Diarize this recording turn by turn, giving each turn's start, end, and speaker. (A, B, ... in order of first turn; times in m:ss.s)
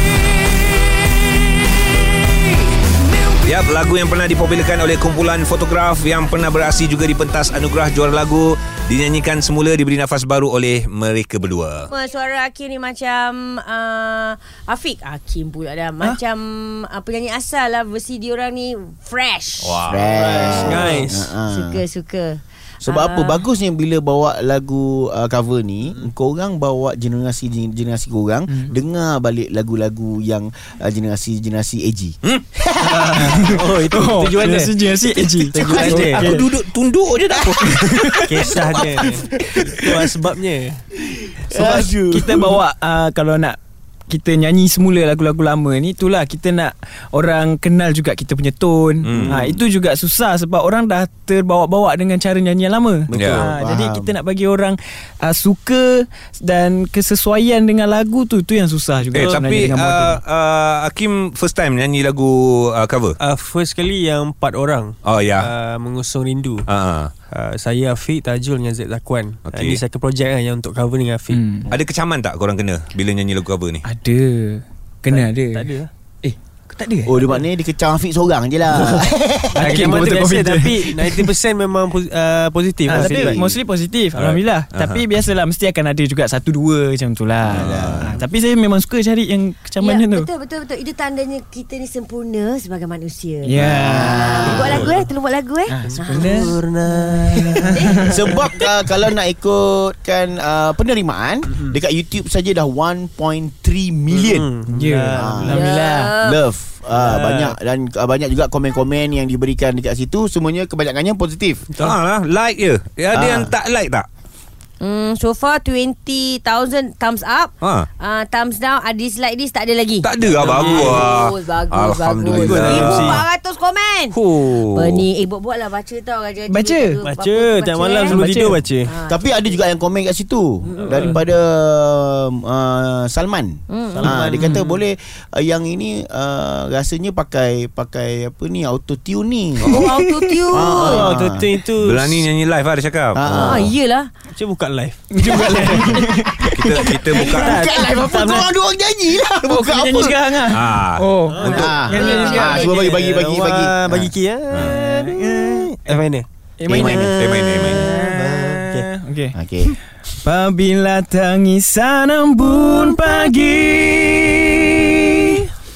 0:03.4-0:11.9 A
0:11.9-0:23.4 B
0:19.6-0:20.2 A
0:19.9-0:21.8 C
0:20.2-0:21.3 D
0:22.8-0:33.6 C
0:32.8-0:34.8 D
0:33.1-0:36.4 E
0:35.5-0:36.2 D
0:35.5-0:36.2 C
0:35.8-0:38.2 A
0:37.3-0:37.7 C
0:37.8-0:38.2 E
0:38.3-0:40.8 D
0:38.3-0:40.0 C
0:41.0-0:42.6 C
0:41.5-0:43.6 E
0:44.1-1:00.2 E
0:49.0-0:49.4 A
0:49.1-0:49.6 C
0:53.1-0:54.1 C
0:53.1-0:53.5 A
0:59.1-1:03.2 A
1:03.2-1:06.7 D
1:05.0-1:05.5 A
1:06.7-1:07.1 A
1:07.3-1:11.4 D
1:09.4-1:09.8 A
1:11.3-1:11.7 E
1:11.7-1:13.8 A
1:13.8-1:15.7 E
1:15.1-1:15.9 D
1:16.2-1:17.2 E
1:17.0-1:19.8 C
1:19.5-1:21.3 E
1:19.6-1:23.5 D
1:22.9-1:30.3 E
1:22.9-1:23.4 C
1:24.2-1:25.0 A
1:27.5-1:28.1 C
1:27.5-1:28.2 A
1:29.8-1:33.5 B
1:33.4-1:34.6 E
1:33.6-1:34.8 C
1:34.1-1:36.6 B
1:35.7-1:36.5 E
1:35.9-1:38.2 D
1:37.6-1:37.9 E
1:37.7-1:38.4 B
1:38.0-1:44.5 C
1:44.1-1:45.5 D
1:44.7-1:46.1 E
1:45.1-1:51.6 C
1:45.5-1:46.4 B
1:46.9-1:47.6 D
1:51.8-1:54.0 A
1:53.1-1:53.5 C
1:54.8-2:09.7 B
1:57.6-1:57.9 A
2:00.0-2:03.2 A
2:00.4-2:01.0 E
2:02.4-2:03.2 D
2:04.1-2:05.0 A
2:06.5-2:07.0 E
2:07.0-2:08.9 D
2:08.0-2:08.6 E
2:09.1-2:19.9 C
2:10.6-2:11.1 B
2:10.8-2:11.2 D
2:13.7-2:14.2 B
2:13.9-2:14.8 D
2:19.6-2:21.1 B
2:20.5-2:21.6 C
2:20.6-2:22.3 D
2:21.8-2:23.7 A
2:23.1-2:23.7 C
2:23.3-2:24.1 B
2:24.3-2:26.0 D
2:25.1-2:27.2 E
2:26.5-2:27.6 A
2:27.1-2:30.4 C
2:27.1-2:27.4 B
2:27.4-2:28.4 D
2:28.0-2:28.4 E
2:29.4-2:32.8 E
2:30.5-2:31.8 A
2:31.3-2:32.0 D
2:31.5-2:34.1 C
2:31.8-2:32.8 B
2:32.7-2:36.2 D
2:34.6-2:35.7 E
2:36.6-2:39.3 E
2:36.7-2:37.3 C
2:37.2-2:37.9 A
2:37.4-2:38.9 D
2:39.3-2:39.7 C
2:40.2-2:45.5 E